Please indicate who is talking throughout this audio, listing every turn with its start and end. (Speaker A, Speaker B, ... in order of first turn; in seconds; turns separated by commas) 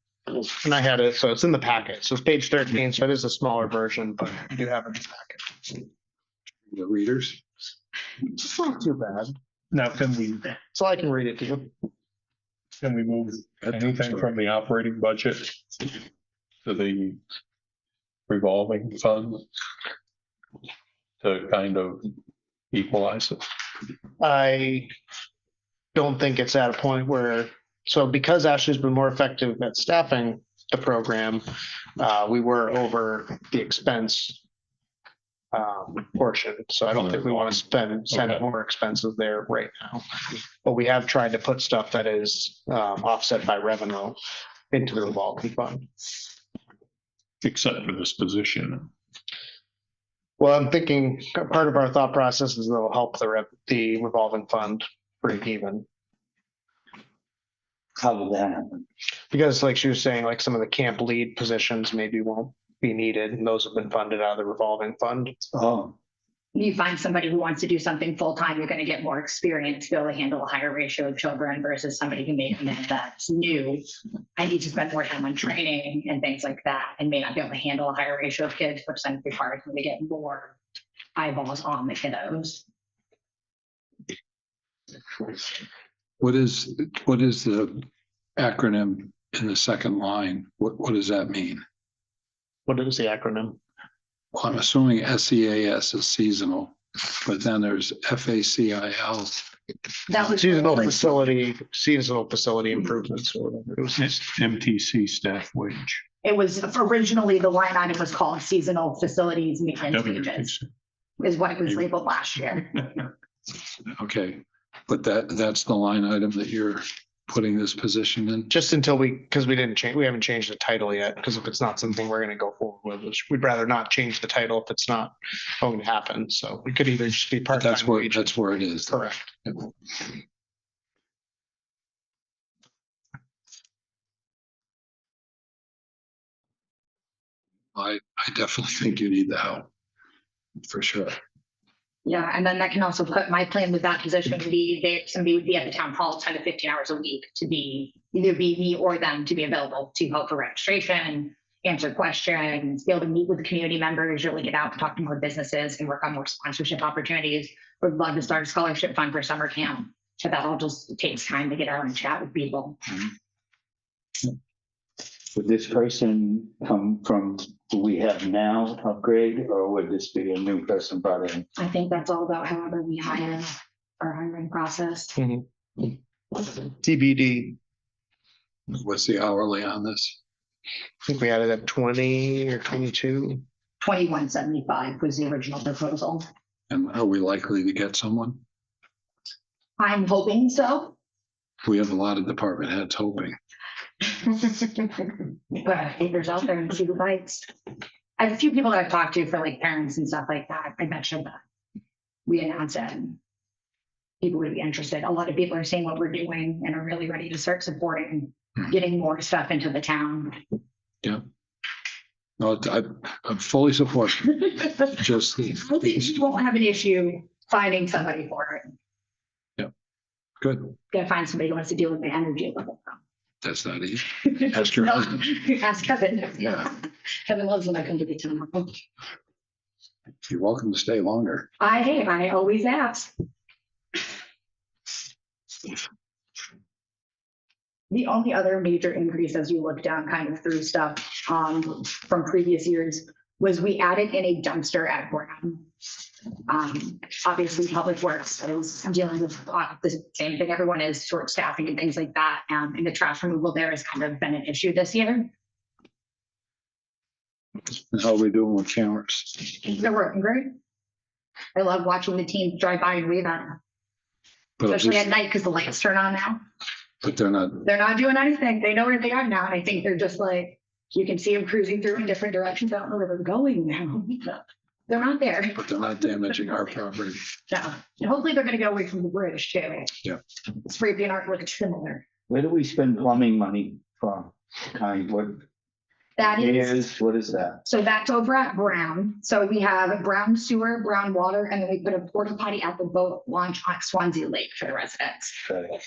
Speaker A: 0.3-5.8, Speaker B: 6.7-7.4, Speaker A: 8.4-9.4, Speaker C: 9.7-10.6, Speaker A: 10.7-11.7, Speaker C: 12.8-15.9, Speaker B: 13.6-14.3, Speaker C: 16.6-17.2, Speaker C: 18.3-19.4, Speaker C: 21.2-22.1, Speaker C: 22.7-23.4, Speaker A: 24.2-24.9, Speaker A: 25.9-31.4, Speaker A: 32.0-34.4, Speaker A: 35.5-44.2, Speaker C: 37.0-37.6, Speaker C: 38.1-38.4, Speaker A: 44.7-45.9, Speaker C: 47.4-48.9, Speaker A: 50.4-55.9, Speaker D: 58.0-58.9, Speaker A: 59.3-65.4, Speaker D: 65.5-66.0, Speaker E: 66.5-73.9, Speaker E: 74.4-80.6, Speaker E: 81.2-82.6, Speaker B: 86.2-87.8, Speaker B: 88.4-91.6, Speaker A: 92.7-93.6, Speaker B: 94.3-99.4, Speaker E: 100.1-101.0, Speaker A: 100.3-104.2, Speaker C: 104.0-106.0, Speaker E: 106.2-110.5, Speaker C: 109.9-110.7, Speaker E: 111.2-113.0, Speaker B: 113.9-118.5, Speaker A: 118.5-128.3, Speaker B: 127.5-128.9, Speaker A: 128.9-129.5, Speaker B: 137.8-139.7, Speaker B: 140.7-141.2, Speaker E: 142.1-162.8, Speaker D: 165.3-171.5, Speaker E: 171.6-175.1, Speaker A: 175.2-177.6, Speaker B: 178.7-180.2, Speaker A: 181.1-183.4, Speaker E: 183.8-186.3, Speaker B: 186.7-188.4, Speaker E: 189.8-190.9, Speaker B: 191.6-193.4, Speaker E: 195.6-197.5, Speaker E: 198.2-201.4, Speaker E: 202.3-203.2, Speaker E: 204.2-210.4, Speaker B: 212.4-216.0, Speaker E: 215.6-218.7, Speaker B: 220.4-220.8, Speaker E: 220.9-223.0, Speaker B: 223.4-225.2, Speaker E: 224.3-228.8, Speaker B: 230.2-231.5, Speaker E: 231.6-233.1, Speaker E: 237.9-245.7, Speaker E: 246.5-255.3, Speaker B: 257.7-259.6, Speaker E: 259.7-260.6, Speaker E: 261.6-263.6, Speaker B: 264.6-265.1, Speaker E: 264.7-266.4, Speaker B: 267.0-267.6, Speaker E: 267.6-275.6, Speaker B: 275.6-277.3, Speaker E: 277.5-279.9, Speaker E: 280.6-282.0, Speaker D: 282.3-285.4, Speaker E: 286.2-286.8, Speaker D: 286.2-287.6, Speaker E: 287.6-295.4